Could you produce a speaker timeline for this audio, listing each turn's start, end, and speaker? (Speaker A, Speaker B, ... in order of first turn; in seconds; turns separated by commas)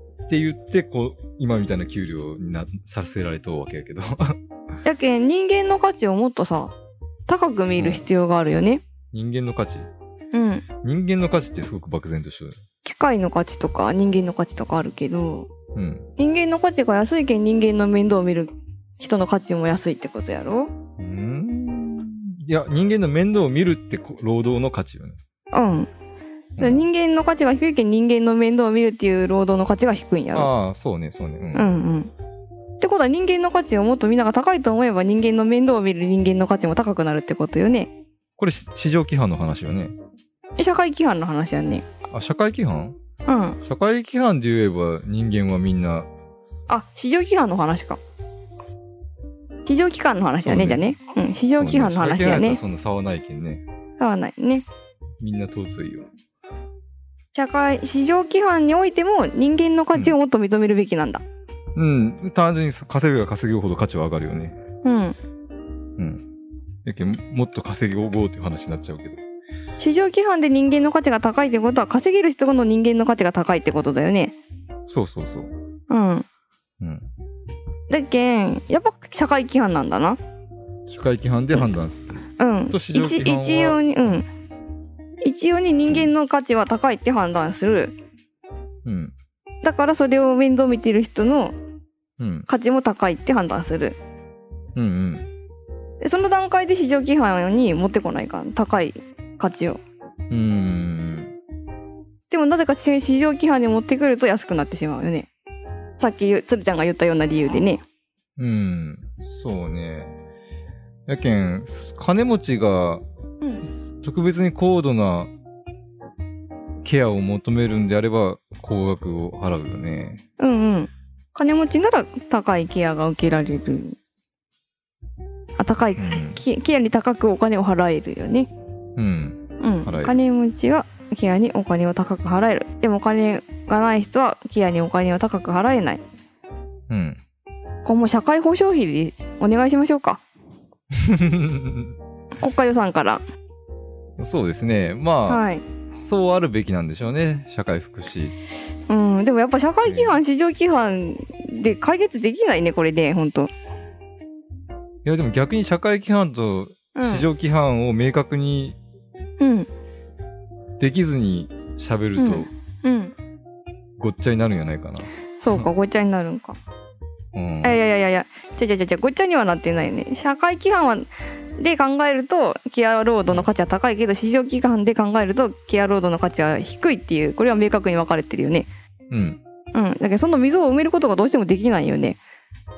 Speaker A: 0.3-4.4, Speaker B: 4.8-6.7, Speaker B: 7.3-8.8, Speaker A: 7.8-8.0, Speaker A: 9.1-9.9, Speaker B: 10.3-10.7, Speaker A: 10.8-12.6, Speaker B: 12.8-15.5, Speaker A: 15.8-16.1, Speaker B: 16.2-20.7, Speaker A: 21.0-25.2, Speaker B: 25.5-25.9, Speaker A: 26.6-26.9, Speaker B: 26.6-30.5, Speaker A: 30.3-31.8, Speaker B: 31.6-32.1, Speaker B: 32.8-37.9, Speaker A: 38.4-40.0, Speaker B: 40.6-41.9, Speaker A: 42.1-43.0, Speaker B: 43.3-43.6, Speaker A: 43.6-46.1, Speaker B: 46.7-48.0, Speaker B: 49.7-52.6, Speaker A: 50.4-50.9, Speaker A: 51.6-53.6, Speaker B: 54.0-54.7, Speaker A: 55.2-56.1, Speaker B: 57.4-61.2, Speaker A: 61.8-64.6, Speaker B: 64.8-65.2, Speaker A: 66.0-66.2, Speaker A: 66.8-69.2, Speaker B: 69.8-74.4, Speaker A: 74.9-75.5, Speaker B: 75.9-76.3, Speaker A: 76.8-77.1, Speaker B: 77.9-80.2, Speaker A: 80.9-84.2, Speaker B: 82.4-84.3, Speaker B: 85.2-88.0, Speaker A: 88.8-89.2, Speaker B: 89.6-91.5, Speaker A: 92.2-92.5, Speaker B: 92.5-94.0, Speaker A: 94.8-95.3, Speaker B: 96.0-99.8, Speaker A: 100.3-101.4, Speaker B: 102.3-105.3, Speaker B: 106.0-107.8, Speaker A: 108.4-110.2, Speaker A: 111.1-113.0, Speaker A: 114.0-115.3, Speaker A: 116.8-120.2, Speaker B: 120.4-124.0, Speaker B: 125.6-128.5, Speaker A: 126.0-126.4, Speaker A: 129.0-130.2, Speaker B: 129.6-136.0, Speaker A: 136.9-137.2, Speaker B: 137.8-140.2, Speaker A: 140.9-142.0, Speaker B: 142.4-143.2, Speaker A: 144.2-148.4, Speaker B: 145.3-145.6, Speaker B: 148.9-153.5, Speaker A: 149.8-150.2, Speaker A: 155.1-158.8, Speaker B: 156.9-157.3, Speaker B: 159.4-159.7, Speaker A: 160.8-162.5, Speaker B: 162.2-163.1, Speaker A: 164.0-165.7, Speaker B: 165.4-166.6, Speaker A: 167.3-167.8, Speaker B: 167.6-178.7, Speaker A: 179.1-179.4, Speaker B: 179.7-182.2